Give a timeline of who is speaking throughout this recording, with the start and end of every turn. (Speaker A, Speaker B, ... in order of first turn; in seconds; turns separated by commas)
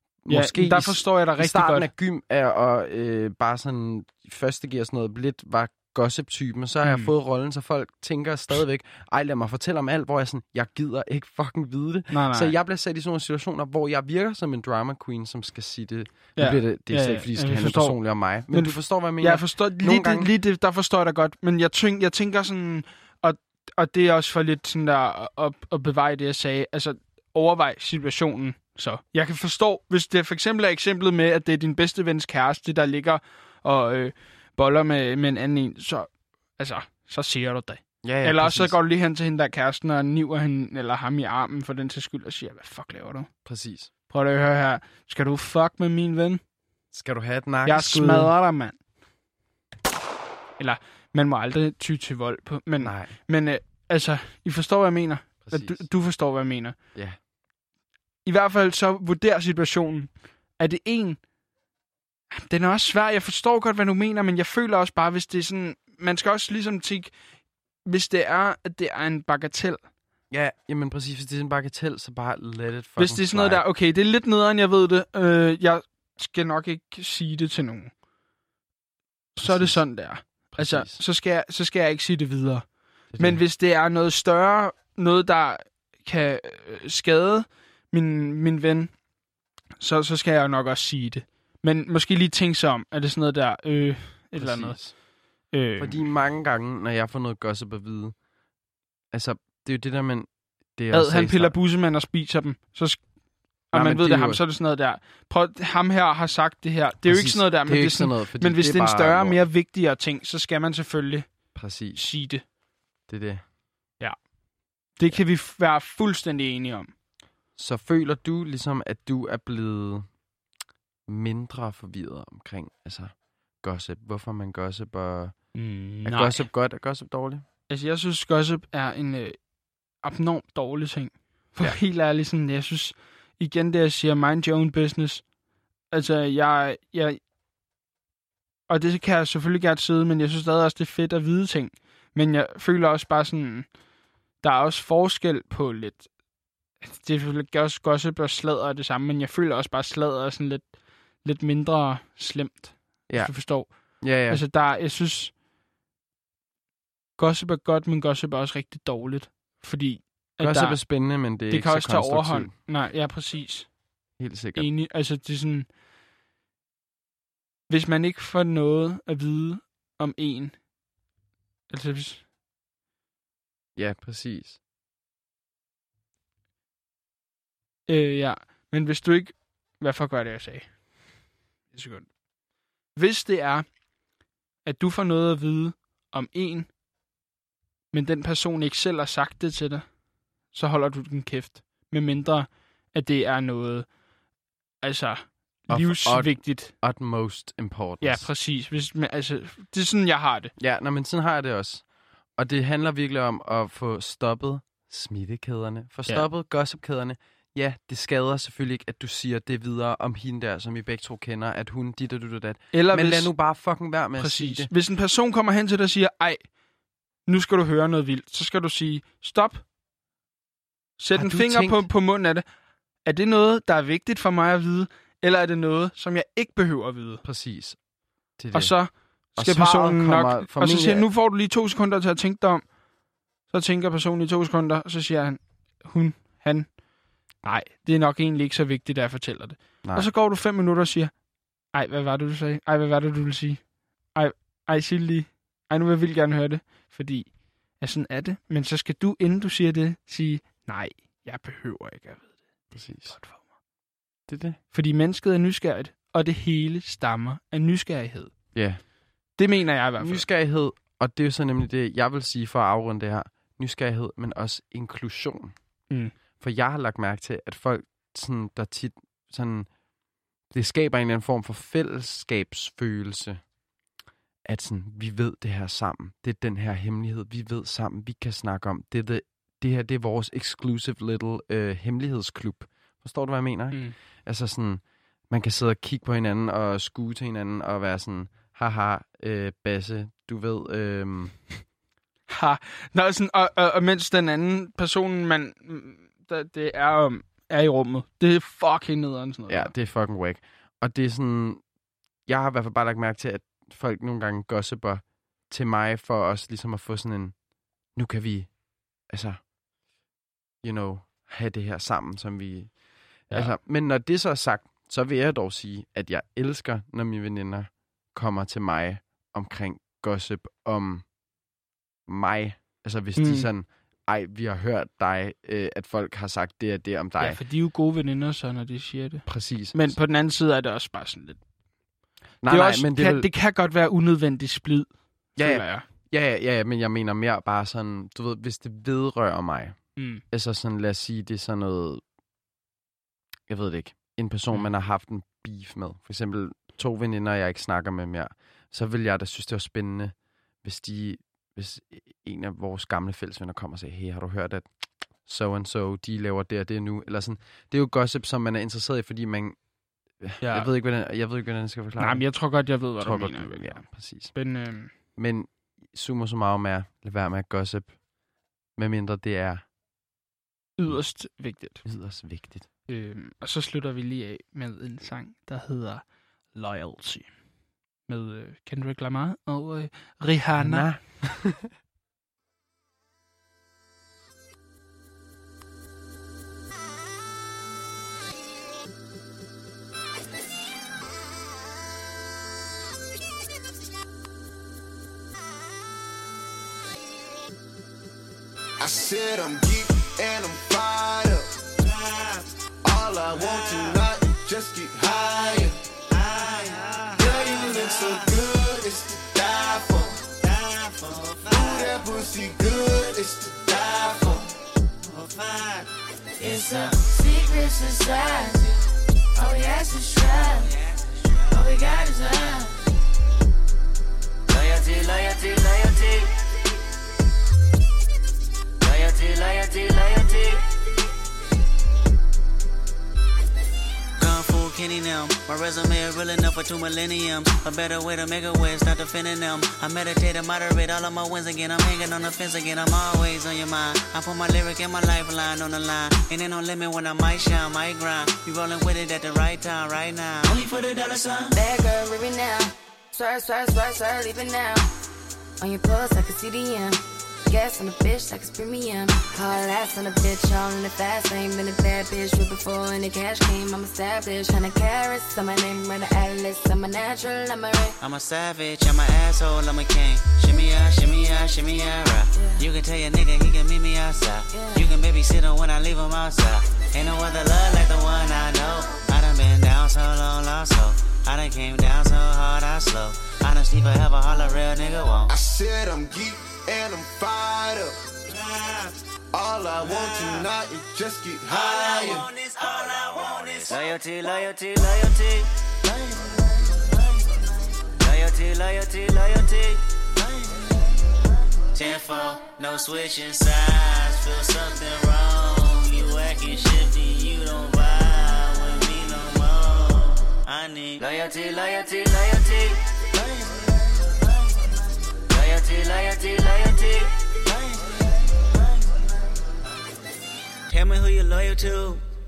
Speaker A: 0.2-20.3, Speaker B: 0.3-1.9, Speaker B: 6.8-7.1, Speaker B: 12.1-12.5, Speaker B: 16.4-43.3, Speaker A: 38.0-38.8, Speaker A: 43.4-43.9, Speaker B: 44.1-46.4, Speaker A: 46.9-48.3, Speaker B: 47.6-48.8, Speaker B: 50.6-56.8, Speaker A: 52.8-53.2, Speaker A: 55.4-55.9, Speaker B: 58.2-61.2, Speaker B: 62.3-67.1, Speaker B: 67.8-69.8, Speaker A: 70.3-73.6, Speaker B: 73.0-77.9, Speaker B: 79.3-88.9, Speaker A: 79.4-80.0, Speaker A: 80.5-81.0, Speaker A: 83.1-83.4, Speaker B: 89.8-94.8, Speaker A: 94.3-94.9, Speaker B: 95.5-96.0, Speaker A: 95.8-98.2, Speaker A: 99.1-101.5, Speaker B: 100.9-103.0, Speaker B: 103.7-112.4, Speaker A: 103.7-104.4, Speaker A: 107.0-109.4, Speaker A: 111.5-112.0, Speaker A: 113.1-113.4, Speaker B: 115.0-116.9, Speaker A: 117.5-120.1, Speaker A: 121.1-125.5, Speaker B: 125.5-126.5, Speaker A: 126.0-127.4, Speaker B: 127.7-129.4, Speaker B: 130.0-135.3, Speaker B: 135.9-137.2, Speaker B: 138.7-143.7, Speaker B: 144.4-146.1, Speaker B: 146.8-155.3, Speaker A: 153.1-154.4, Speaker B: 157.2-163.7, Speaker A: 160.4-162.5, Speaker A: 164.2-164.7, Speaker B: 164.6-165.7, Speaker B: 167.7-170.6, Speaker B: 171.7-172.2, Speaker A: 173.8-174.6, Speaker B: 177.9-180.8, Speaker B: 181.7-182.1, Speaker B: 182.9-183.7, Speaker B: 184.7-186.7, Speaker B: 187.9-189.9, Speaker B: 190.5-193.9, Speaker B: 194.8-196.7, Speaker A: 195.7-198.3, Speaker B: 198.0-200.5, Speaker A: 200.6-201.8, Speaker A: 202.4-214.7, Speaker B: 212.7-213.3, Speaker B: 214.2-216.5, Speaker B: 217.2-219.6, Speaker B: 221.0-222.4, Speaker A: 221.1-221.9, Speaker B: 223.0-227.2, Speaker A: 227.2-227.8, Speaker A: 228.4-228.8, Speaker B: 228.5-232.7, Speaker A: 229.4-231.1, Speaker B: 233.5-236.7, Speaker B: 237.4-241.1, Speaker A: 239.8-240.1, Speaker B: 241.7-243.6, Speaker B: 244.1-253.4, Speaker A: 252.7-253.2, Speaker A: 254.3-254.6, Speaker B: 254.7-258.3, Speaker A: 258.5-258.8, Speaker B: 259.4-260.2, Speaker A: 260.0-265.5, Speaker A: 266.4-269.7, Speaker A: 270.5-273.4, Speaker A: 274.4-291.4, Speaker B: 292.3-299.7, Speaker A: 299.5-301.6, Speaker A: 302.3-307.3, Speaker A: 307.9-308.5, Speaker A: 309.1-309.4, Speaker A: 310.6-312.8, Speaker A: 313.3-321.0, Speaker A: 322.1-327.4, Speaker B: 323.2-323.5, Speaker B: 327.2-331.4, Speaker A: 329.2-329.9, Speaker A: 332.4-333.3, Speaker B: 332.5-335.9, Speaker A: 335.4-342.0, Speaker B: 340.0-340.2, Speaker A: 343.5-354.6, Speaker A: 355.2-359.6, Speaker A: 360.2-362.2, Speaker B: 360.4-360.7, Speaker B: 362.0-364.9, Speaker A: 363.0-364.3, Speaker A: 365.1-367.9, Speaker A: 368.8-369.6, Speaker B: 370.8-371.8, Speaker A: 371.8-372.7, Speaker B: 372.9-377.3, Speaker B: 378.1-380.8, Speaker A: 380.6-381.7, Speaker C: 398.8-401.6, Speaker D: 401.8-402.4, Speaker C: 402.8-405.8, Speaker D: 406.1-408.2, Speaker C: 407.2-410.2, Speaker D: 410.4-411.8, Speaker C: 411.5-414.4, Speaker D: 415.0-415.9, Speaker D: 416.4-417.6, Speaker D: 420.2-422.6, Speaker D: 424.5-426.4, Speaker D: 428.8-430.7, Speaker D: 434.2-451.5, Speaker E: 451.5-454.9, Speaker E: 455.6-467.9, Speaker D: 468.0-485.3, Speaker E: 472.3-472.6, Speaker E: 474.5-474.9, Speaker C: 485.3-488.0, Speaker D: 488.3-488.9, Speaker C: 489.3-492.3, Speaker D: 489.9-490.4, Speaker D: 491.7-501.1, Speaker D: 501.7-519.1, Speaker D: 520.7-522.0